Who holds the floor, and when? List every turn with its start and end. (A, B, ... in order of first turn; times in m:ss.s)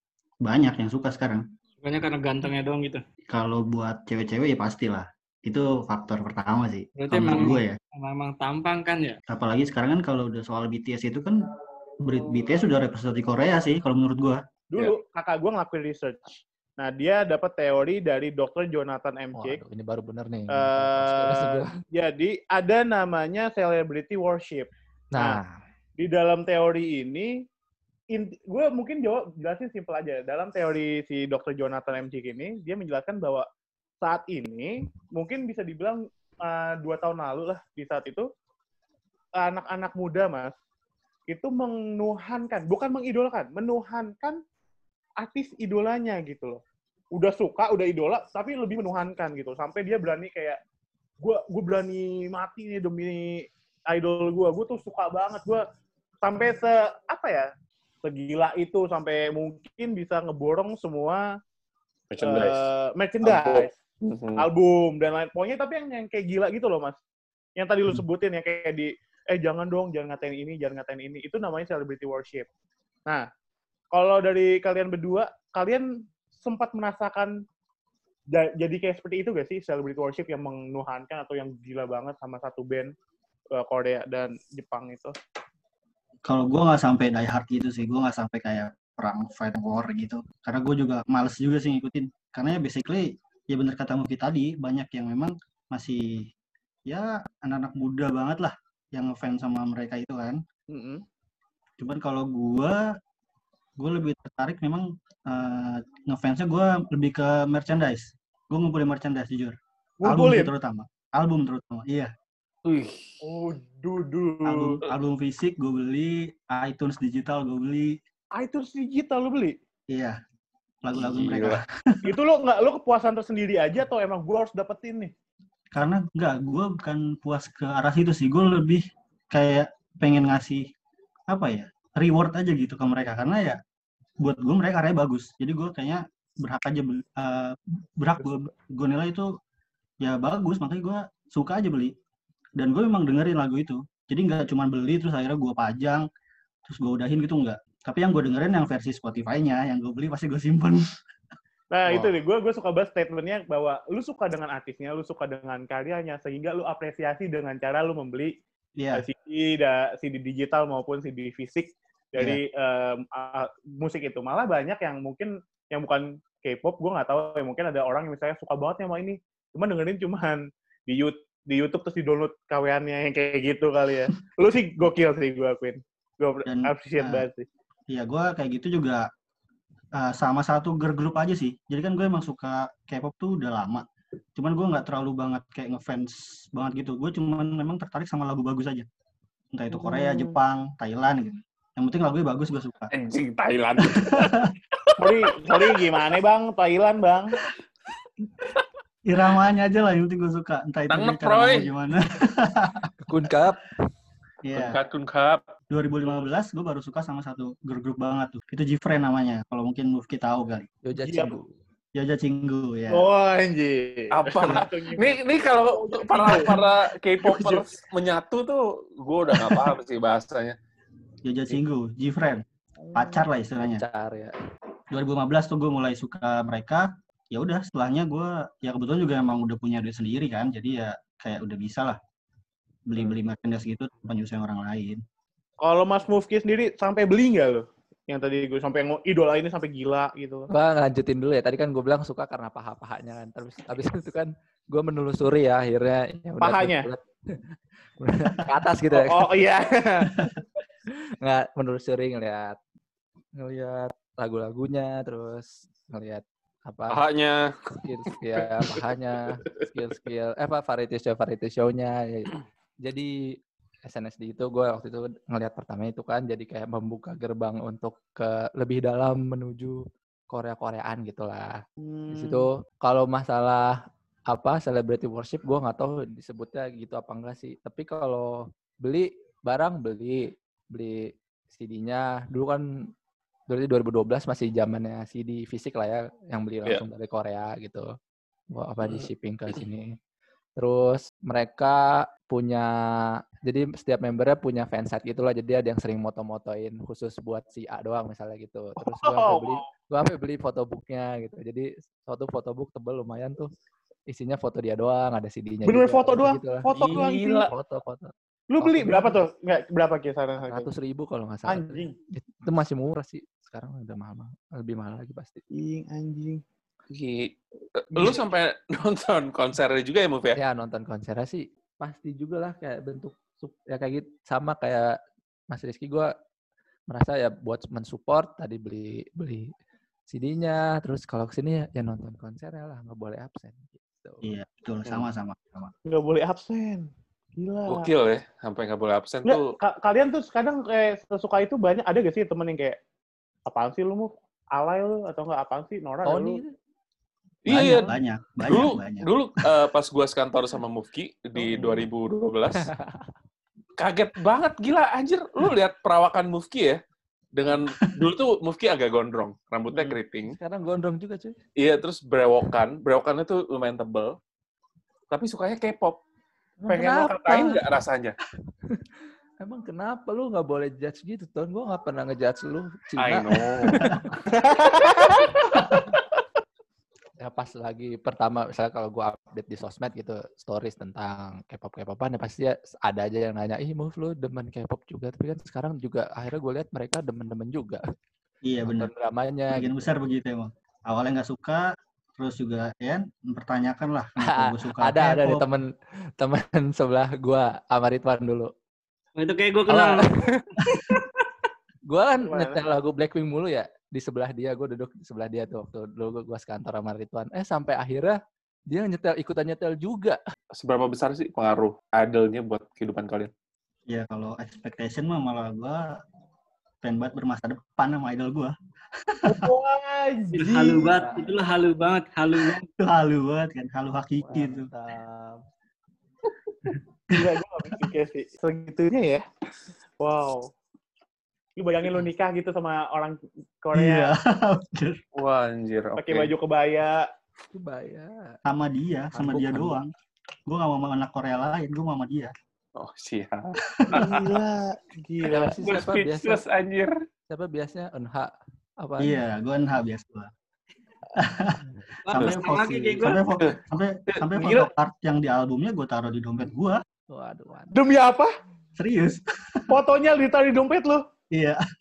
0:00.4-0:01.4 A
0:01.8-0:03.0 B
0:03.3-0:07.8 A
0:07.0-0:09.2 B
0:07.2-0:07.5 C
0:09.3-0:11.4 A
0:12.0-0:14.4 A
0:14.7-0:19.6 D
0:19.3-0:21.8 E
0:20.5-0:25.4 D
0:25.1-0:25.6 E
0:26.0-0:27.3 D
0:28.1-0:33.4 D
0:34.0-0:38.3 D
0:39.4-0:40.5 D
0:41.3-0:44.4 D
0:45.2-0:46.6 D
0:47.1-0:50.6 D
0:51.2-0:55.6 D
0:56.2-0:57.5 D
0:58.0-1:01.2 D
1:02.1-1:02.6 C
1:02.2-1:03.7 D
1:03.2-1:04.4 C
1:04.4-1:07.0 D
1:07.6-1:12.5 D
1:13.9-1:15.9 D
1:16.4-1:17.3 D
1:18.3-1:22.9 D
1:23.6-1:25.1 D
1:26.2-1:36.3 A
1:36.9-1:40.4 A
1:40.7-1:41.0 D
1:41.8-1:42.8 A
1:43.8-1:52.1 A
1:50.0-1:50.5 D
1:52.6-1:53.1 C
1:53.2-1:54.8 D
1:54.4-1:58.0 A
1:58.3-1:59.6 D
1:59.9-2:00.2 A
2:00.8-2:02.1 A
2:01.0-2:01.6 C
2:02.0-2:05.1 D
2:05.7-2:10.6 A
2:11.3-2:13.6 A
2:14.2-2:19.3 A
2:18.2-2:18.5 D
2:20.0-2:21.9 A
2:22.6-2:26.0 A
2:26.7-2:30.8 A
2:31.7-2:38.3 D
2:38.8-2:39.0 A
2:38.9-2:57.4 D
2:56.4-2:57.2 A
2:57.9-2:59.1 A
3:00.0-3:03.8 A
3:04.4-3:08.8 A
3:09.5-3:12.9 A
3:09.7-3:10.4 D
3:12.9-3:15.8 C
3:13.8-3:14.5 A
3:15.0-3:17.4 D
3:19.0-3:22.9 A
3:20.9-3:21.7 C
3:23.0-3:23.8 E
3:24.4-3:24.8 A
3:24.6-3:25.4 C
3:25.7-3:30.7 A
3:30.8-3:31.5 E
3:31.0-3:31.3 D
3:31.9-3:33.1 A
3:32.9-3:36.6 D
3:34.1-3:40.6 C
3:37.3-3:37.6 A
3:41.2-3:43.8 A
3:42.8-3:43.2 D
3:43.6-3:44.3 E
3:44.9-3:52.0 A
3:52.9-3:55.0 A
3:55.6-4:00.5 D
4:00.5-4:07.4 E
4:06.4-4:06.9 D
4:08.0-4:09.3 E
4:08.9-4:10.2 D
4:11.2-4:12.6 E
4:13.4-4:17.0 E
4:16.9-4:17.8 C
4:17.8-4:23.1 E
4:18.4-4:18.8 C
4:23.8-4:29.8 E
4:30.3-4:31.6 E
4:31.8-4:32.4 D
4:32.1-4:33.8 E
4:34.3-4:42.6 E
4:43.5-4:47.9 E
4:48.5-4:49.9 E
4:50.6-4:52.7 E
4:53.4-5:03.5 E
4:58.8-4:59.6 D
5:04.1-5:09.2 E
5:05.6-5:07.5 D
5:06.7-5:07.0 A
5:08.5-5:10.7 D
5:10.4-5:15.4 E
5:11.5-5:11.9 D
5:15.5-5:16.4 D
5:16.9-5:20.4 C
5:20.4-5:24.9 E
5:25.5-5:26.1 E
5:26.9-5:29.5 E
5:30.1-5:34.2 E
5:34.2-5:35.7 A
5:35.9-5:37.9 D
5:37.7-5:39.4 C
5:39.3-5:42.8 D
5:43.5-5:46.4 D
5:46.0-5:46.5 E
5:47.4-5:47.9 C
5:47.5-5:49.1 A
5:48.4-5:52.7 C
5:52.6-5:53.1 E
5:53.8-5:56.8 C
5:57.3-6:00.4 C
5:59.7-6:00.0 D
6:00.2-6:01.3 E
6:01.6-6:04.2 C
6:05.1-6:06.0 C
6:06.6-6:07.6 D
6:06.7-6:07.5 E
6:07.3-6:08.2 C
6:09.4-6:14.1 E
6:13.0-6:14.0 C
6:14.3-6:16.0 D
6:17.2-6:27.8 E
6:28.4-6:28.9 A
6:28.6-6:29.7 E
6:29.5-6:31.6 A
6:32.2-6:35.4 A
6:34.2-6:35.6 E
6:36.2-6:38.5 E
6:39.2-6:40.1 B
6:39.7-6:40.5 E
6:41.9-6:48.2 E
6:42.2-6:42.6 D
6:48.7-6:50.2 E
6:50.6-6:53.3 C
6:53.9-6:56.0 A
6:56.8-6:59.5 A
6:59.2-7:01.0 D
7:00.3-7:02.6 B
7:00.9-7:01.3 E
7:02.8-7:04.7 A
7:04.2-7:05.4 E
7:07.1-7:09.2 D
7:10.0-7:10.5 D
7:11.6-7:14.1 D
7:13.7-7:15.0 A
7:15.2-7:16.3 C
7:16.0-7:17.1 D
7:17.5-7:18.4 E
7:18.4-7:19.9 A
7:19.1-7:19.8 E
7:20.5-7:22.3 A
7:22.8-7:24.3 C
7:23.7-7:24.2 A
7:23.9-7:25.5 D
7:25.2-7:26.4 E
7:25.6-7:26.9 C
7:27.3-7:29.2 E
7:29.0-7:30.3 A
7:31.2-7:36.8 A
7:32.0-7:33.2 B
7:33.4-7:34.7 C
7:37.1-7:37.7 E
7:37.7-7:38.3 D
7:38.8-7:39.7 A
7:39.7-7:41.0 D
7:41.3-7:41.6 A